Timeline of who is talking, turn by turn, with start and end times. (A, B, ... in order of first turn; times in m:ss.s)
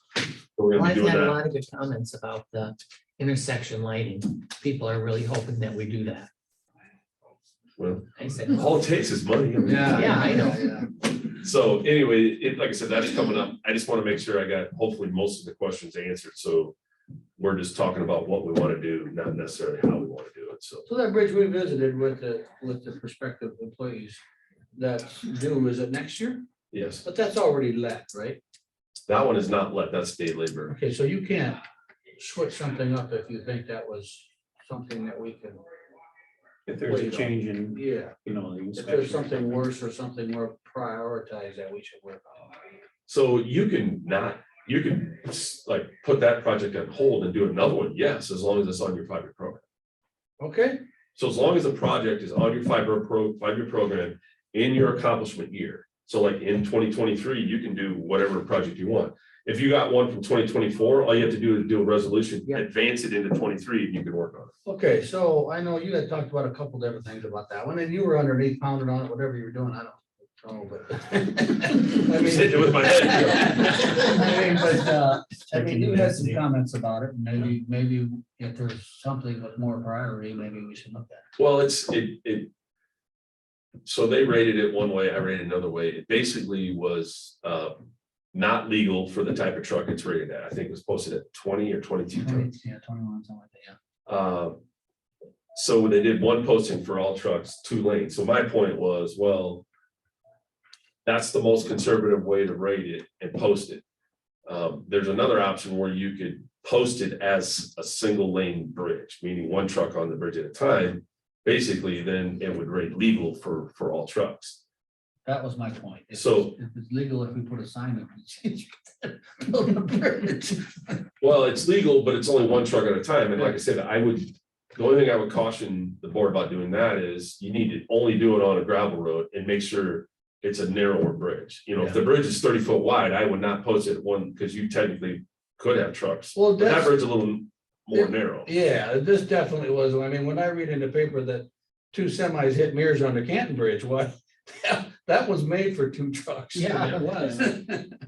0:00.6-0:01.4 A
0:00.7-0:06.3 B
0:07.8-0:10.4 A
0:08.2-0:08.8 B
0:09.6-0:10.9 C
0:09.8-0:10.7 B
0:11.3-0:16.8 A
0:17.4-0:20.8 A
0:20.8-0:24.2 C
0:24.7-0:26.4 C
0:26.7-0:27.0 A
0:27.0-0:28.4 C
0:29.1-0:30.8 A
0:30.7-0:31.6 C
0:32.2-0:35.6 C
0:36.7-0:39.3 D
0:36.8-0:38.2 C
0:38.7-0:42.5 C
0:43.1-0:49.6 A
0:50.4-0:50.8 C
0:51.2-1:04.5 A
1:04.6-1:21.2 C
1:12.2-1:14.0 A
1:15.6-1:16.4 D
1:21.4-1:22.5 A
1:23.8-1:32.5 A
1:32.2-1:33.8 C
1:34.1-1:34.6 A
1:35.5-1:39.6 A
1:41.0-1:43.8 A
1:44.5-1:54.6 A
1:55.2-2:00.9 C
1:56.1-1:56.6 A
2:01.2-2:18.5 A
2:16.3-2:17.0 C
2:17.9-2:27.8 C
2:26.6-2:27.5 D